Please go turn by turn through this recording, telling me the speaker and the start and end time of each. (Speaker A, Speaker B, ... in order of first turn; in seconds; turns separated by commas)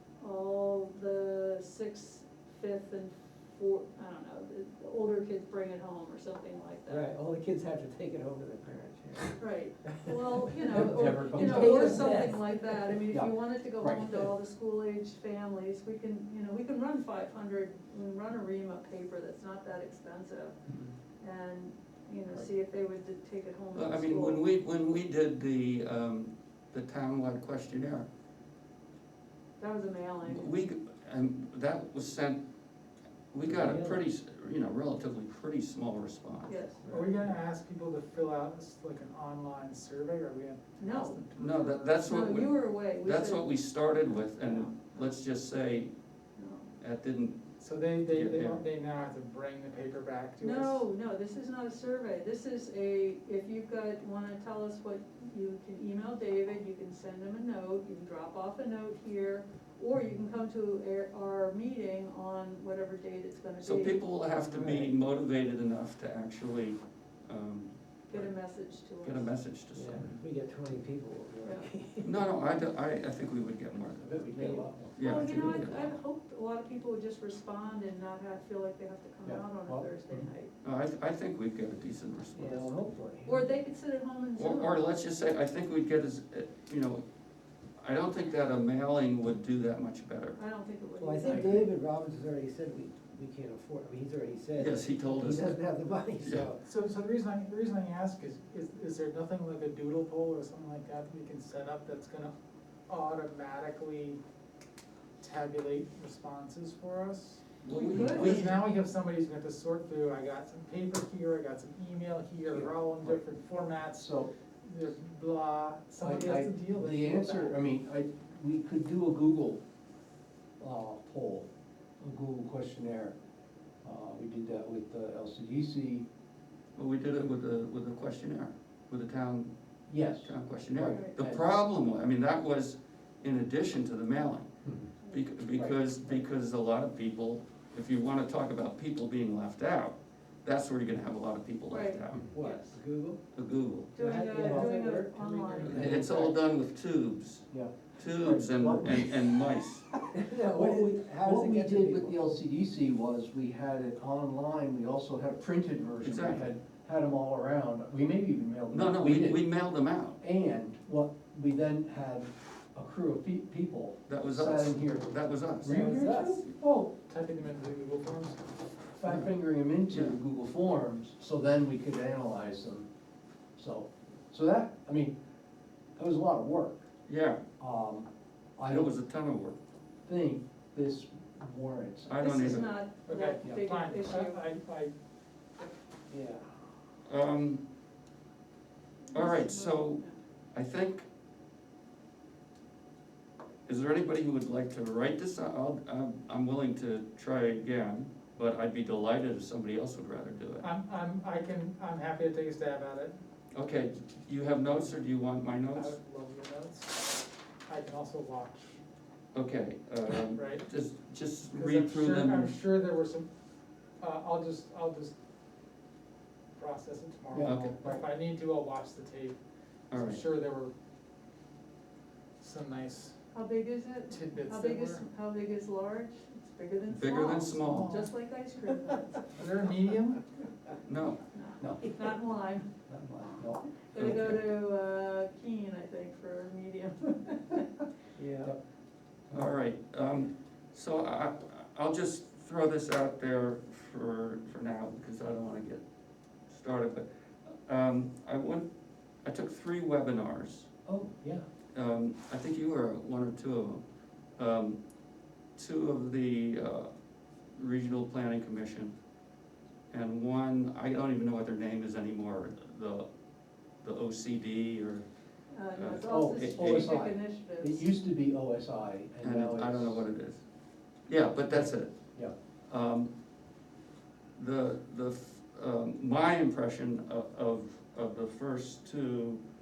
Speaker A: 0.2-7.1, Speaker B: 6.9-12.7, Speaker A: 9.4-20.6, Speaker C: 10.7-12.2, Speaker C: 13.1-14.3, Speaker A: 21.2-24.4, Speaker D: 23.7-28.1, Speaker A: 29.6-30.5, Speaker D: 30.2-32.4, Speaker D: 33.3-36.6, Speaker B: 33.5-34.0, Speaker A: 36.5-37.1, Speaker E: 36.9-42.1, Speaker A: 40.8-41.2, Speaker D: 41.4-45.9, Speaker A: 42.0-43.5, Speaker A: 44.4-45.1, Speaker A: 46.4-46.7, Speaker D: 46.8-47.5, Speaker E: 47.6-50.9, Speaker D: 48.1-48.6, Speaker A: 50.4-64.0, Speaker D: 63.6-68.3, Speaker B: 64.4-64.9, Speaker A: 68.1-69.3, Speaker D: 69.0-70.2, Speaker B: 69.7-72.2, Speaker A: 71.4-71.7, Speaker D: 72.0-74.2, Speaker C: 74.0-74.9, Speaker B: 74.3-74.7, Speaker D: 75.0-75.9, Speaker A: 75.0-80.5, Speaker C: 79.2-80.3, Speaker D: 80.6-82.8, Speaker B: 82.3-83.4, Speaker A: 83.2-84.8, Speaker D: 84.3-87.0, Speaker D: 87.8-90.4, Speaker A: 90.3-91.7, Speaker B: 91.0-96.6, Speaker D: 94.5-95.6, Speaker D: 96.2-96.5, Speaker E: 96.6-102.3, Speaker E: 102.9-104.2, Speaker E: 105.2-117.6, Speaker D: 107.6-108.6, Speaker A: 107.9-108.4, Speaker C: 112.5-113.2, Speaker C: 114.0-114.3, Speaker C: 116.0-119.6, Speaker C: 120.6-121.5, Speaker C: 122.0-123.1, Speaker C: 123.8-126.1, Speaker D: 126.7-129.5, Speaker C: 129.9-131.4, Speaker D: 130.2-134.5, Speaker A: 130.8-131.2, Speaker C: 134.6-134.9, Speaker D: 135.1-142.3, Speaker C: 135.5-136.2, Speaker A: 141.7-142.8, Speaker B: 142.3-143.2, Speaker D: 143.3-143.9, Speaker A: 143.9-145.9, Speaker B: 144.0-146.0, Speaker C: 144.3-144.7, Speaker C: 145.6-146.4, Speaker D: 145.6-149.9, Speaker C: 147.5-149.4, Speaker B: 150.1-152.2, Speaker C: 150.4-159.4, Speaker D: 156.0-156.5, Speaker D: 158.7-160.2, Speaker C: 160.2-166.5, Speaker D: 164.1-165.8, Speaker E: 165.6-168.4, Speaker B: 165.7-166.4, Speaker C: 169.0-172.9, Speaker D: 169.0-169.3, Speaker D: 169.9-170.2, Speaker C: 173.6-175.2, Speaker C: 175.9-176.8, Speaker D: 177.1-177.4, Speaker C: 177.6-178.9, Speaker D: 178.7-179.6, Speaker C: 180.0-182.7, Speaker D: 182.1-182.8, Speaker A: 182.2-184.4, Speaker E: 183.1-184.9, Speaker C: 186.1-186.4, Speaker D: 187.1-187.6, Speaker A: 189.1-190.1, Speaker D: 189.1-191.0, Speaker D: 193.7-200.7, Speaker E: 200.6-203.2, Speaker D: 203.5-205.9, Speaker E: 205.7-208.8, Speaker D: 209.3-212.5, Speaker E: 210.3-210.7, Speaker E: 211.5-213.3, Speaker E: 214.0-215.1, Speaker E: 216.5-219.4, Speaker C: 217.3-218.0, Speaker D: 217.4-217.8, Speaker D: 219.9-220.2, Speaker E: 219.9-220.7, Speaker E: 222.4-223.2, Speaker A: 223.3-229.3, Speaker E: 224.1-225.0, Speaker D: 226.9-228.0, Speaker E: 227.6-228.1, Speaker E: 229.3-230.2, Speaker D: 230.8-231.2, Speaker A: 231.2-232.7, Speaker C: 231.6-232.0, Speaker C: 232.9-233.6, Speaker A: 233.9-237.7, Speaker D: 233.9-234.5, Speaker B: 238.2-238.5, Speaker D: 239.3-245.8, Speaker D: 246.5-248.7, Speaker D: 249.2-250.7, Speaker C: 250.8-251.4, Speaker D: 251.7-253.8, Speaker D: 254.4-254.8, Speaker D: 255.6-256.9, Speaker D: 257.5-258.9, Speaker D: 259.9-263.1, Speaker D: 263.8-265.1, Speaker A: 265.5-267.9, Speaker D: 265.7-267.0, Speaker C: 266.1-270.0, Speaker D: 269.2-270.4, Speaker D: 271.1-272.0, Speaker C: 271.5-272.3, Speaker D: 272.7-273.1, Speaker D: 274.4-279.4